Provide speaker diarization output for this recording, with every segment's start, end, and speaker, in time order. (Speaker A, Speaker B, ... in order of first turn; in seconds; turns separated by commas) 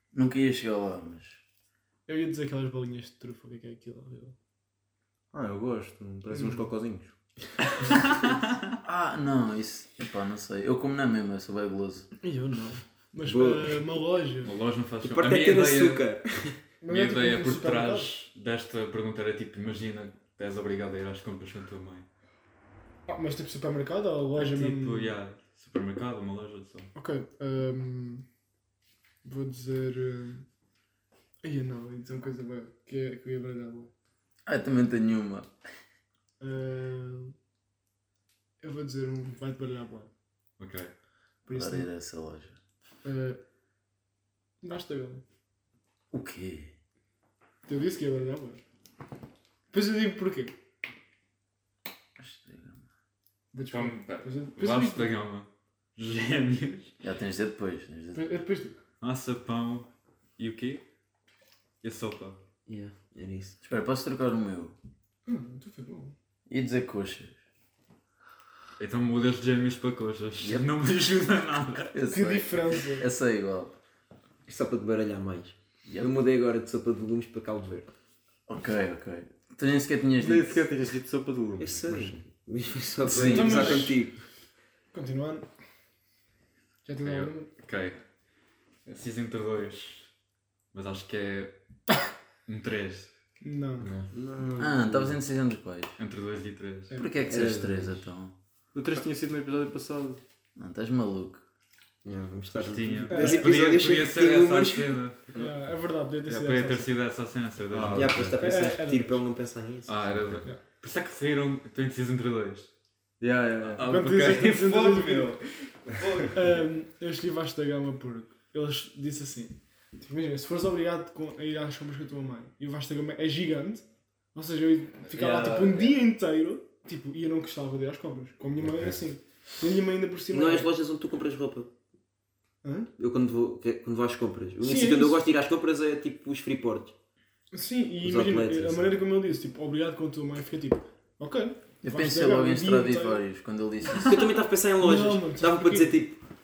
Speaker A: 0.1-1.4, Speaker B: 2.1-4.3, Speaker C: 5.3-7.2, Speaker B: 6.3-6.7, Speaker A: 8.8-12.1, Speaker B: 12.2-14.5, Speaker D: 13.2-13.8, Speaker E: 14.4-16.1, Speaker D: 15.0-16.6, Speaker B: 16.8-18.1, Speaker E: 16.9-22.1, Speaker B: 23.1-25.2, Speaker E: 24.4-26.9, Speaker B: 26.9-28.2, Speaker B: 29.2-30.4, Speaker B: 31.4-33.9, Speaker A: 34.5-35.5, Speaker B: 36.4-37.4, Speaker B: 38.6-40.1, Speaker E: 40.6-40.9, Speaker B: 41.5-41.9, Speaker A: 41.5-42.6, Speaker B: 43.0-43.4, Speaker B: 44.6-45.2, Speaker A: 46.1-46.7, Speaker B: 47.7-48.6, Speaker B: 49.7-50.5, Speaker A: 52.2-52.8, Speaker B: 53.5-55.1, Speaker E: 53.6-56.9, Speaker A: 57.0-58.4, Speaker B: 58.1-58.8, Speaker E: 59.0-60.8, Speaker E: 61.8-62.4, Speaker D: 62.7-63.6, Speaker A: 63.6-64.8, Speaker B: 65.3-66.2, Speaker A: 66.5-67.4, Speaker E: 68.8-72.0, Speaker A: 70.4-70.7, Speaker A: 71.9-73.8, Speaker B: 72.1-73.1, Speaker D: 74.5-77.9, Speaker A: 75.8-76.1, Speaker A: 78.5-80.7, Speaker C: 80.2-82.2, Speaker D: 81.6-84.2, Speaker A: 83.1-83.9, Speaker B: 83.1-84.0, Speaker B: 84.9-85.5, Speaker B: 86.8-87.5, Speaker E: 87.0-88.0, Speaker E: 88.9-90.1, Speaker E: 90.7-91.5, Speaker E: 92.5-93.1, Speaker B: 93.4-93.9, Speaker D: 93.8-94.1, Speaker C: 94.1-95.2, Speaker A: 94.6-96.0, Speaker E: 96.0-97.0, Speaker A: 96.9-98.3, Speaker D: 97.3-98.0, Speaker C: 98.7-100.2, Speaker A: 100.6-101.4, Speaker D: 102.0-104.9, Speaker E: 102.5-105.2, Speaker B: 103.1-103.7, Speaker C: 105.3-105.7, Speaker B: 105.4-106.9, Speaker E: 106.2-108.4, Speaker C: 107.7-108.5, Speaker D: 107.9-110.0, Speaker B: 108.4-109.2, Speaker E: 109.9-112.7, Speaker C: 113.2-113.9, Speaker E: 113.7-116.5, Speaker B: 113.8-115.4, Speaker D: 115.0-115.3, Speaker B: 116.3-130.7, Speaker E: 125.1-126.0, Speaker C: 128.6-129.0, Speaker D: 130.3-131.7, Speaker B: 132.6-132.9, Speaker D: 133.0-136.9, Speaker B: 134.6-135.2, Speaker B: 137.5-143.2, Speaker D: 138.0-139.0, Speaker A: 141.8-144.2, Speaker D: 144.0-146.2, Speaker B: 144.8-145.9